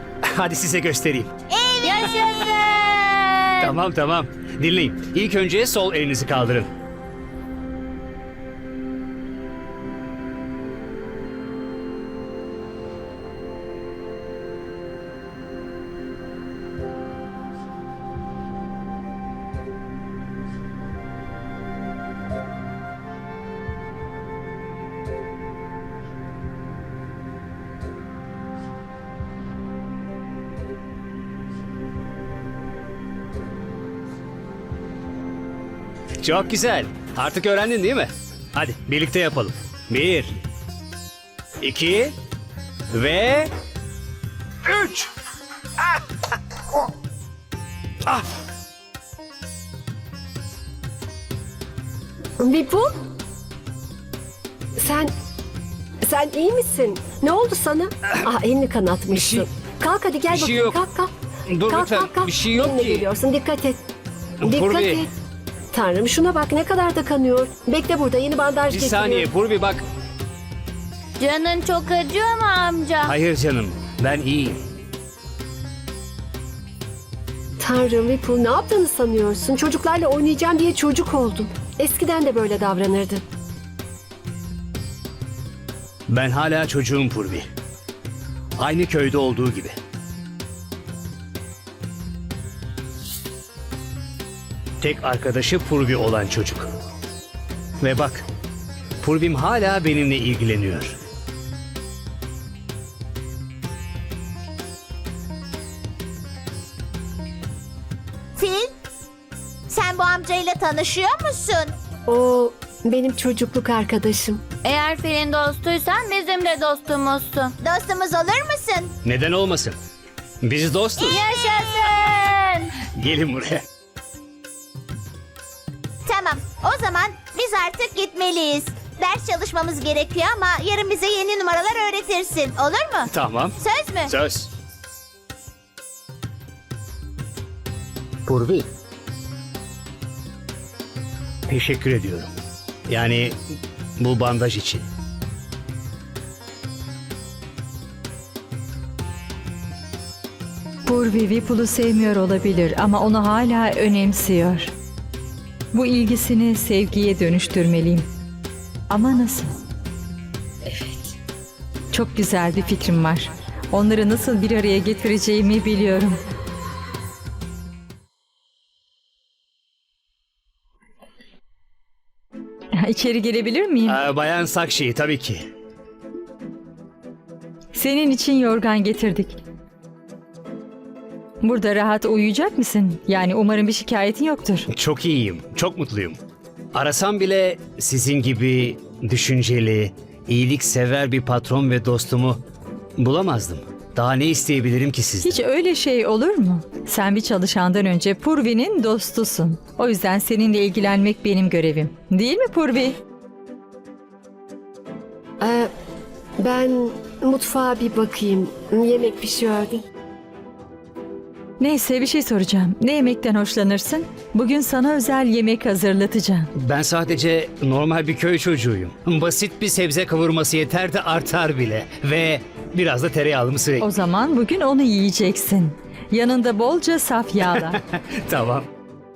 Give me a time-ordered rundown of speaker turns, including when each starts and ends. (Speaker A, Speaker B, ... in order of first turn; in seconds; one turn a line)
Speaker A: 0.3-1.3
Speaker B: 1.5-1.8
Speaker C: 1.8-3.7
Speaker A: 1.9-2.4
Speaker A: 3.6-6.7
Speaker A: 36.2-40.4
Speaker A: 41.6-42.1
Speaker A: 42.9-43.5
Speaker A: 44.6-45.1
Speaker D: 52.4-52.9
Speaker D: 54.8-55.1
Speaker D: 56.0-61.1
Speaker A: 59.1-59.5
Speaker A: 60.3-60.8
Speaker A: 61.5-63.1
Speaker D: 61.7-63.8
Speaker A: 64.4-65.1
Speaker D: 64.4-65.1
Speaker D: 65.7-69.3
Speaker A: 68.7-69.8
Speaker C: 71.2-73.1
Speaker A: 73.0-74.6
Speaker D: 77.6-83.2
Speaker A: 86.1-87.5
Speaker A: 88.6-89.8
Speaker A: 94.8-96.7
Speaker A: 97.8-98.2
Speaker A: 99.0-101.0
Speaker B: 108.4-108.7
Speaker B: 109.7-111.7
Speaker D: 112.1-114.4
Speaker C: 114.6-117.6
Speaker B: 117.6-118.9
Speaker A: 119.0-119.8
Speaker A: 120.4-121.2
Speaker C: 121.0-122.7
Speaker B: 121.4-121.7
Speaker A: 122.9-123.6
Speaker B: 126.1-133.1
Speaker A: 133.1-134.5
Speaker B: 133.6-134.1
Speaker A: 138.3-138.7
Speaker A: 141.5-142.3
Speaker A: 142.9-143.4
Speaker A: 144.0-144.8
Speaker E: 150.9-154.7
Speaker E: 155.7-158.1
Speaker E: 158.9-159.6
Speaker E: 161.9-166.2
Speaker E: 172.7-174.0
Speaker A: 173.9-175.5
Speaker E: 177.7-179.4
Speaker E: 181.4-184.7
Speaker A: 184.7-186.2
Speaker A: 186.7-192.4
Speaker A: 193.0-195.4
Speaker E: 195.2-203.0
Speaker D: 205.4-205.7
Speaker D: 206.4-209.8
Speaker E: 211.6-216.5
Speaker A: 216.6-223.9
Speaker E: 223.8-227.8
Speaker A: 227.7-228.7